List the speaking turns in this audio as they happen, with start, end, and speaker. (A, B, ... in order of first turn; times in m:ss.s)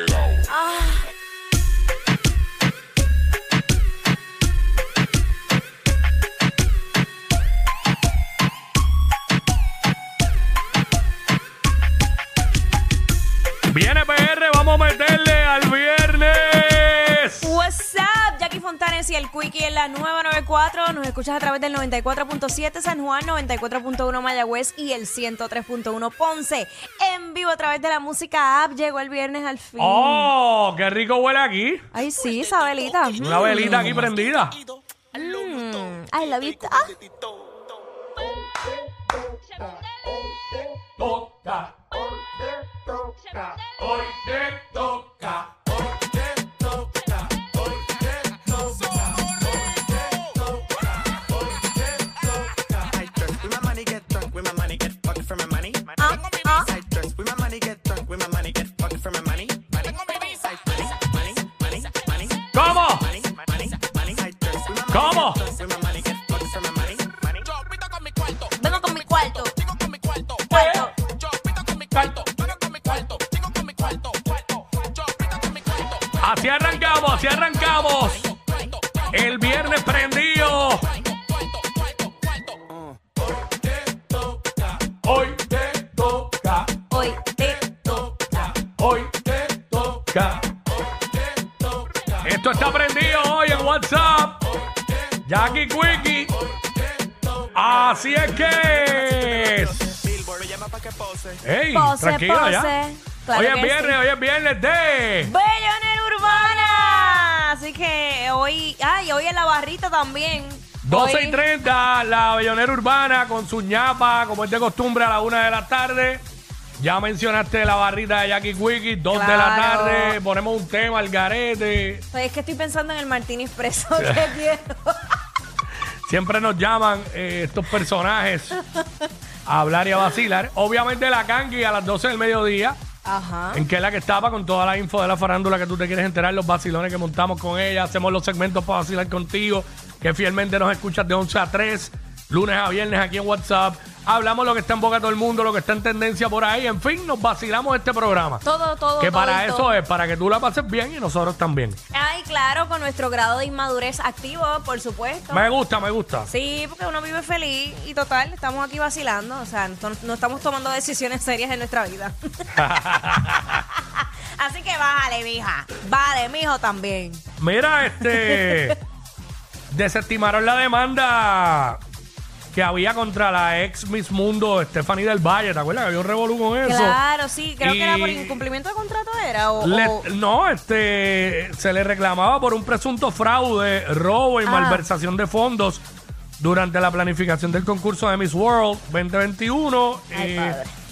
0:00.5-0:01.0 A
0:13.7-0:17.5 B
0:17.4-0:30.3 A
0:29.8-0:31.9 B
0:31.9-0:34.1 A
0:33.2-0:34.6 B
0:35.1-0:37.0 A
0:41.0-0:42.0 B
0:43.1-0:45.5 B
0:53.3-0:55.9 C
0:56.0-0:56.8 A
0:56.8-0:59.9 C
1:00.5-1:02.1 C
1:02.5-1:03.2 B
1:03.2-1:07.4 C
1:04.9-1:05.6 B
1:08.6-1:09.6 A
1:10.5-1:10.9 A
1:10.5-1:10.8 B
1:11.9-1:12.3 B
1:16.2-1:18.4 B
1:19.1-1:20.9 B
1:24.3-1:26.8 B
1:26.9-1:27.7 A
1:27.7-1:30.5 B
1:32.2-1:34.5 B
1:35.3-1:36.3 B
1:37.5-1:40.0 B
1:40.3-1:41.3 C
1:41.4-1:42.7 B
1:41.7-1:44.0 A
1:43.2-1:45.3 B
1:45.2-1:51.4 A
1:50.8-1:56.2 B
1:56.8-2:02.0 B
1:59.1-2:00.2 A
2:02.1-2:05.2 A
2:04.0-2:04.4 B
2:06.1-2:08.6 B
2:09.5-2:12.8 B
2:13.0-2:13.6 A
2:13.5-2:28.4 B
2:28.4-2:29.8 A
2:29.0-2:31.8 B
2:31.9-2:35.5 A
2:35.3-2:36.3 B
2:36.3-2:47.2 A
2:42.6-2:43.6 B
2:47.4-2:48.8 B
2:47.8-2:48.8 A
2:49.7-2:51.8 B
2:52.5-2:57.0 B
2:56.6-3:00.1 A
2:57.6-2:58.4 B
2:59.6-3:05.8 B
3:04.4-3:04.9 A
3:06.4-3:10.6 B
3:10.1-3:10.7 A